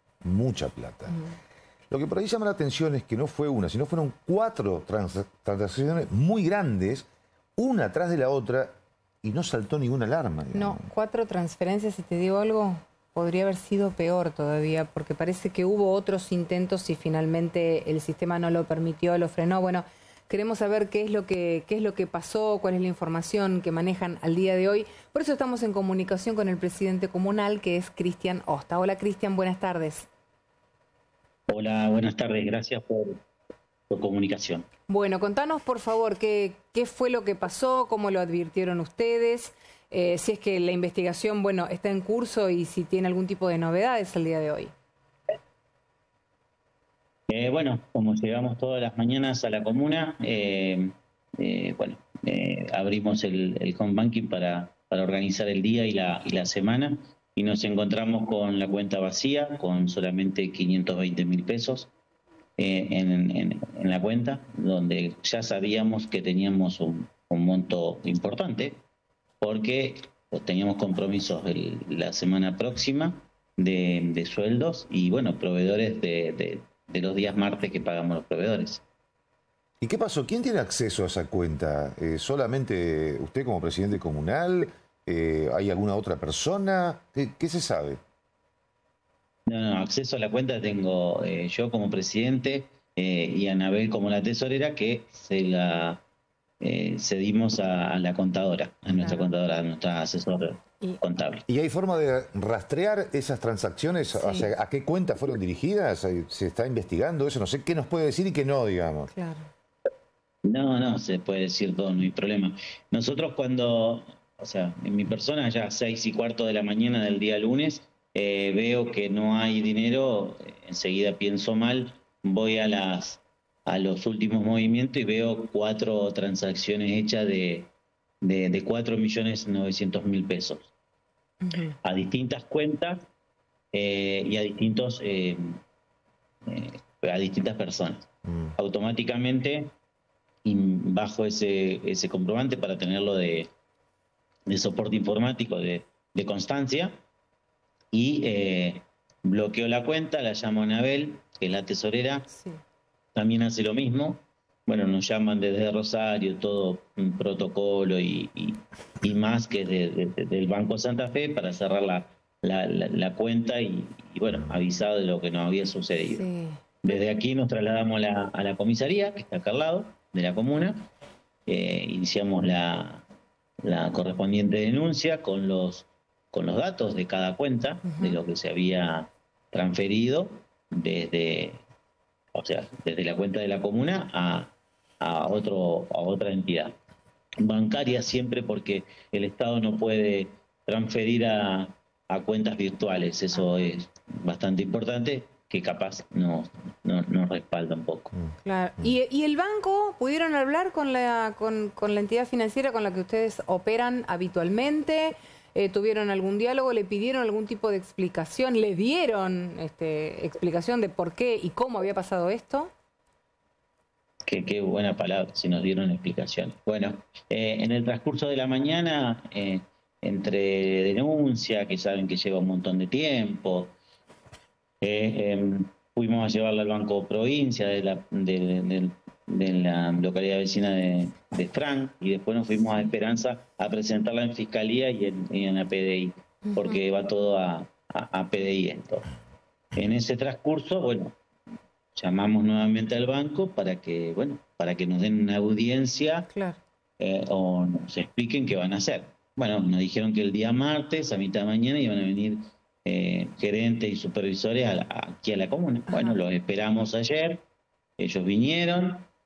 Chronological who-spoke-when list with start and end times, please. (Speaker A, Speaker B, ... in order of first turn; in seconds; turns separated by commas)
Speaker A: 0.2-1.2, Speaker A: 1.9-10.9, Speaker B: 10.5-30.1, Speaker C: 31.5-33.2, Speaker C: 33.9-34.7, Speaker B: 34.9-44.7, Speaker C: 47.3-61.9, Speaker C: 62.6-68.8, Speaker C: 69.4-78.8, Speaker A: 79.8-88.0, Speaker C: 89.5-96.0, Speaker C: 96.6-101.4, Speaker B: 99.0-99.3, Speaker A: 101.5-109.1, Speaker B: 104.1-104.5, Speaker B: 109.1-109.5, Speaker C: 110.5-127.7, Speaker C: 128.2-130.7, Speaker B: 131.4-131.8, Speaker C: 131.8-133.1, Speaker C: 133.7-135.6, Speaker C: 136.5-139.7, Speaker A: 138.2-138.5, Speaker C: 140.4-143.5, Speaker C: 144.5-147.0, Speaker C: 147.9-152.3, Speaker C: 153.2-166.3, Speaker B: 166.1-167.0, Speaker C: 166.8-170.9, Speaker C: 171.5-173.0, Speaker C: 173.6-181.6, Speaker B: 177.9-178.2, Speaker C: 182.3-186.8, Speaker C: 187.4-198.1, Speaker A: 198.1-198.9, Speaker B: 198.4-212.7, Speaker C: 214.3-223.7, Speaker C: 224.8-239.1, Speaker B: 236.5-236.8, Speaker C: 239.8-241.1, Speaker C: 241.9-246.3, Speaker B: 246.3-246.6, Speaker C: 247.0-257.4, Speaker B: 255.9-256.2, Speaker C: 258.0-259.1